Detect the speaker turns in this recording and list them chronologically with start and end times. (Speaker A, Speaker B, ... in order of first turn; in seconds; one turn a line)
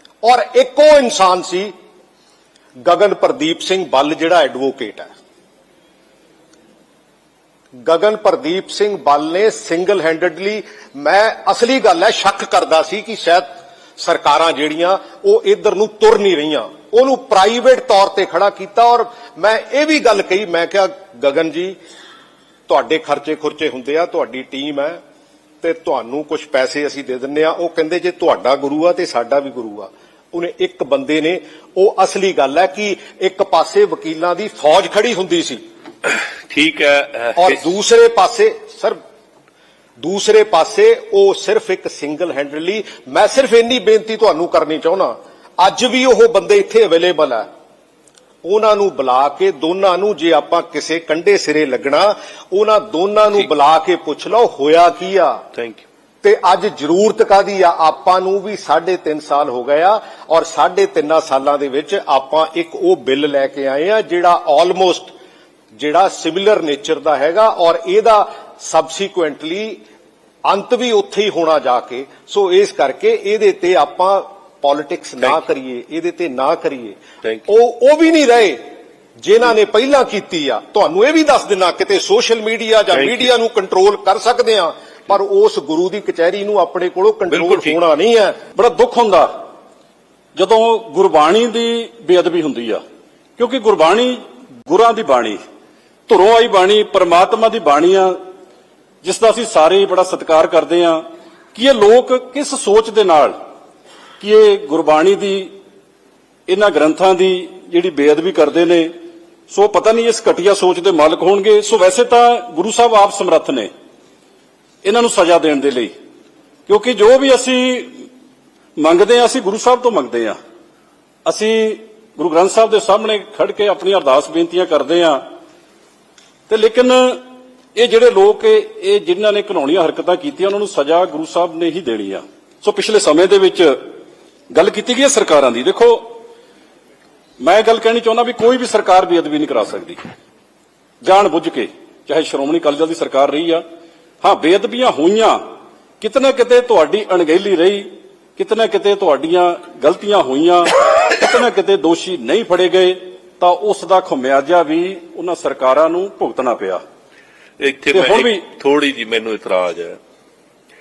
Speaker A: 0.2-1.7
Speaker A: 2.8-5.1
Speaker A: 7.8-13.5
Speaker A: 14.0-21.8
Speaker A: 22.7-25.0
Speaker A: 25.6-35.6
Speaker B: 36.0-37.6
Speaker A: 37.4-39.0
Speaker A: 40.0-47.5
Speaker A: 48.4-55.4
Speaker B: 55.6-55.8
Speaker A: 56.2-65.1
Speaker A: 65.8-69.8
Speaker A: 70.5-78.6
Speaker A: 79.2-88.4
Speaker B: 82.9-83.3
Speaker B: 87.3-87.8
Speaker C: 88.6-89.3
Speaker C: 90.4-92.8
Speaker C: 93.4-95.4
Speaker C: 96.1-98.2
Speaker C: 99.0-101.0
Speaker C: 101.5-103.3
Speaker C: 104.2-105.5
Speaker C: 106.5-108.9
Speaker C: 109.5-113.7
Speaker C: 114.8-115.9
Speaker C: 116.7-118.1
Speaker C: 118.8-120.4
Speaker C: 121.2-125.2
Speaker C: 126.5-127.2
Speaker C: 127.8-133.8
Speaker C: 134.5-136.2
Speaker C: 137.4-140.0
Speaker C: 141.0-143.6
Speaker C: 144.2-145.4
Speaker C: 146.0-156.8
Speaker B: 157.6-160.0
Speaker C: 157.9-158.4